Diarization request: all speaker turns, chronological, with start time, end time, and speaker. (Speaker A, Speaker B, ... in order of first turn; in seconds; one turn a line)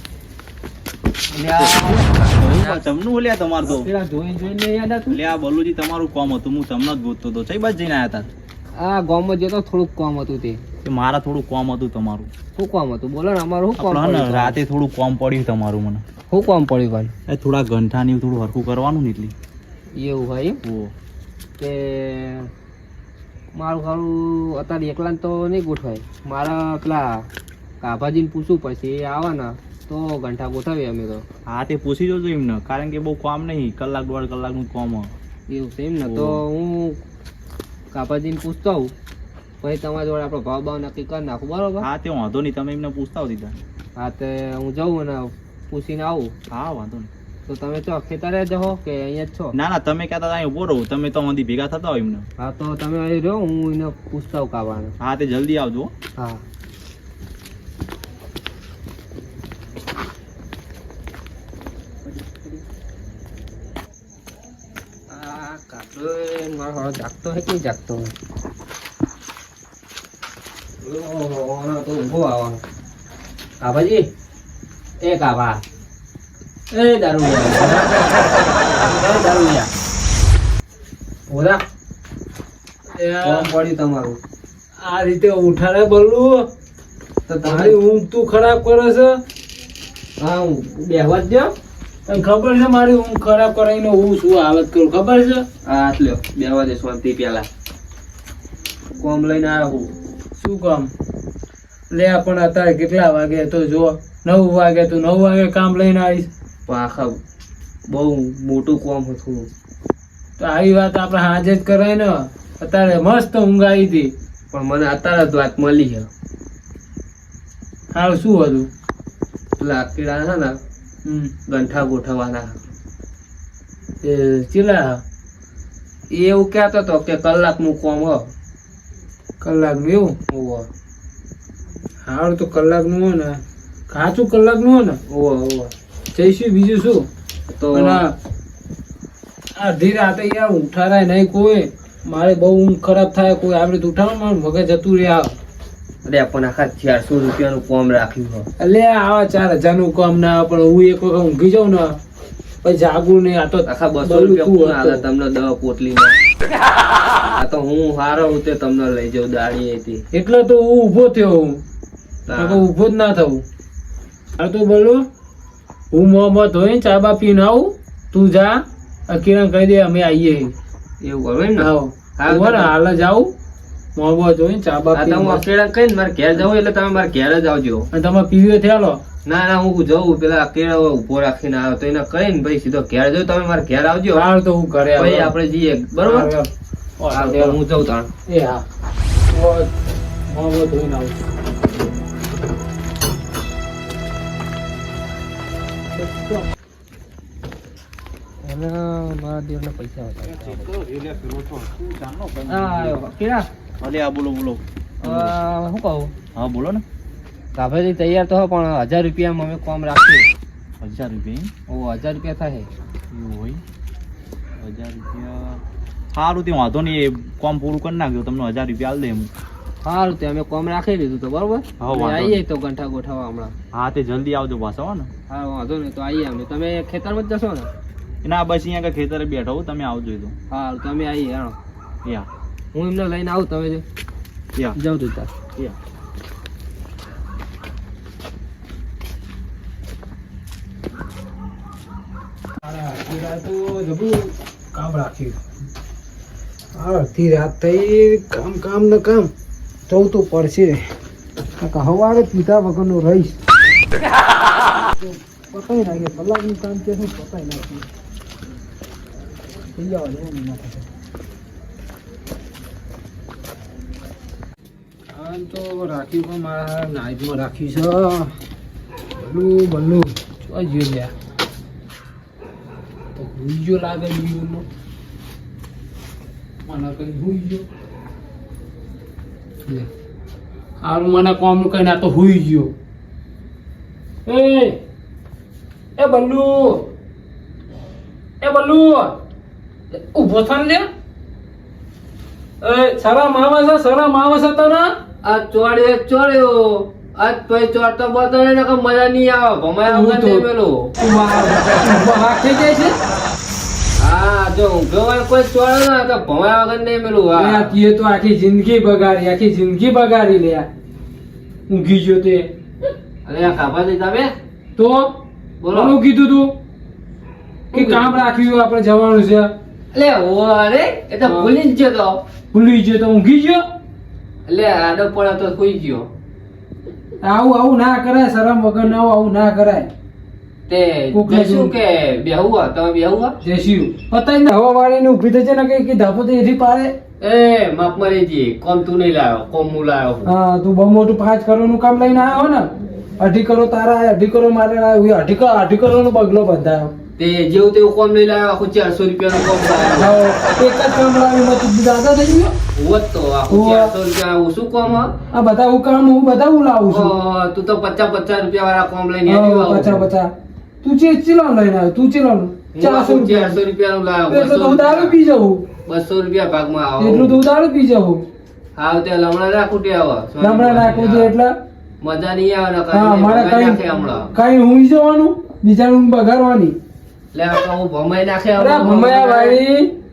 Speaker A: 1.3-2.8
Speaker B: 1.6-3.9
Speaker A: 3.6-5.2
Speaker B: 5.1-8.3
Speaker A: 8.8-10.6
Speaker B: 10.8-12.3
Speaker A: 12.6-14.6
Speaker B: 13.8-16.0
Speaker A: 16.3-17.1
Speaker B: 17.3-19.3
Speaker A: 19.9-20.6
Speaker B: 20.6-20.9
Speaker A: 21.6-22.5
Speaker A: 23.5-27.3
Speaker A: 27.8-31.2
Speaker B: 31.5-35.1
Speaker A: 35.5-37.0
Speaker B: 36.0-36.4
Speaker A: 37.9-38.9
Speaker A: 39.6-41.9
Speaker B: 41.8-43.5
Speaker A: 44.0-46.3
Speaker B: 46.5-47.1
Speaker A: 47.5-49.5
Speaker B: 49.5-52.2
Speaker A: 52.4-54.9
Speaker B: 55.0-55.9
Speaker A: 56.1-56.4
Speaker A: 62.1-62.6
Speaker A: 65.1-68.1
Speaker A: 70.8-72.6
Speaker A: 73.6-74.1
Speaker A: 75.0-75.6
Speaker A: 76.7-77.9
Speaker A: 78.8-79.7
Speaker A: 81.3-81.6
Speaker C: 82.9-83.5
Speaker A: 83.2-84.2
Speaker C: 84.8-86.5
Speaker A: 87.3-87.8
Speaker C: 87.4-89.2
Speaker A: 90.2-91.5
Speaker C: 92.0-95.5
Speaker A: 95.6-97.5
Speaker A: 99.0-99.9
Speaker C: 100.4-100.9
Speaker C: 101.9-106.3
Speaker A: 106.7-107.2
Speaker A: 107.9-109.5
Speaker C: 110.4-114.1
Speaker A: 114.5-116.1
Speaker C: 117.9-118.7
Speaker A: 119.6-120.5
Speaker C: 121.0-121.3
Speaker A: 121.5-122.6
Speaker C: 124.0-125.0
Speaker A: 126.1-128.3
Speaker C: 129.4-130.1
Speaker A: 130.3-130.7
Speaker C: 132.0-135.0
Speaker A: 135.1-135.7
Speaker C: 136.1-137.1
Speaker A: 137.5-138.1
Speaker C: 137.7-138.1
Speaker C: 139.6-145.4
Speaker A: 146.0-148.5
Speaker C: 148.6-152.0
Speaker C: 152.6-155.0
Speaker A: 153.6-156.1
Speaker A: 157.3-160.0
Speaker C: 160.1-161.6
Speaker A: 162.2-162.7
Speaker C: 162.3-163.4
Speaker C: 164.3-165.0
Speaker C: 165.9-170.5
Speaker A: 171.0-172.7
Speaker C: 171.6-173.3
Speaker C: 173.9-175.4
Speaker A: 174.9-177.9
Speaker C: 177.9-179.0
Speaker A: 179.2-184.2
Speaker C: 184.1-185.3
Speaker A: 184.9-186.3
Speaker C: 186.0-187.6
Speaker A: 187.1-188.1
Speaker C: 188.3-188.6
Speaker C: 189.3-189.7
Speaker C: 190.3-191.2
Speaker C: 195.9-196.5
Speaker A: 198.4-200.7
Speaker B: 200.3-203.0
Speaker A: 202.5-203.5
Speaker B: 203.8-205.3
Speaker A: 205.0-206.1
Speaker B: 206.3-206.8
Speaker A: 207.5-210.2
Speaker B: 210.8-211.5
Speaker A: 211.7-212.7
Speaker B: 213.1-213.6
Speaker B: 214.6-215.6
Speaker B: 216.1-219.3
Speaker A: 219.8-223.5
Speaker B: 221.8-222.4
Speaker B: 223.7-225.1
Speaker A: 225.3-227.7
Speaker B: 228.2-230.3
Speaker A: 230.5-231.6
Speaker A: 232.7-233.8
Speaker A: 234.8-235.3
Speaker C: 242.6-245.4
Speaker C: 246.7-249.3
Speaker C: 249.9-250.9
Speaker C: 251.6-253.4
Speaker C: 255.0-257.9
Speaker C: 259.8-260.9
Speaker C: 265.1-268.3
Speaker C: 269.2-271.1
Speaker C: 273.1-274.6
Speaker C: 276.6-277.6
Speaker C: 280.8-282.7
Speaker C: 284.2-284.8
Speaker C: 286.0-286.9
Speaker C: 288.4-289.1
Speaker C: 289.9-290.9
Speaker C: 292.6-294.9
Speaker A: 295.2-300.9
Speaker C: 299.9-300.4
Speaker C: 301.0-302.9
Speaker A: 304.0-307.8
Speaker C: 307.4-310.7
Speaker C: 311.7-312.5
Speaker A: 313.2-314.3
Speaker C: 314.8-315.2
Speaker A: 315.6-316.0
Speaker C: 315.7-316.5
Speaker A: 317.7-318.3
Speaker C: 317.7-319.5
Speaker A: 319.9-322.2
Speaker C: 321.2-321.5
Speaker C: 322.5-323.6
Speaker A: 324.5-326.1
Speaker C: 327.2-329.9
Speaker A: 330.7-333.4
Speaker C: 331.1-331.7
Speaker C: 333.4-336.9
Speaker A: 337.2-340.3
Speaker C: 340.2-346.9
Speaker A: 347.2-350.1
Speaker C: 349.9-352.5
Speaker A: 352.7-355.1
Speaker C: 353.5-353.9
Speaker C: 355.3-357.1
Speaker A: 356.9-360.1
Speaker C: 359.2-360.3
Speaker C: 360.8-363.6
Speaker A: 362.7-365.2
Speaker C: 364.3-365.6
Speaker A: 365.9-367.4
Speaker C: 367.0-368.2
Speaker A: 368.8-371.3
Speaker C: 370.4-371.6
Speaker A: 372.0-374.3
Speaker C: 372.9-376.8
Speaker A: 377.3-379.6
Speaker C: 378.6-379.9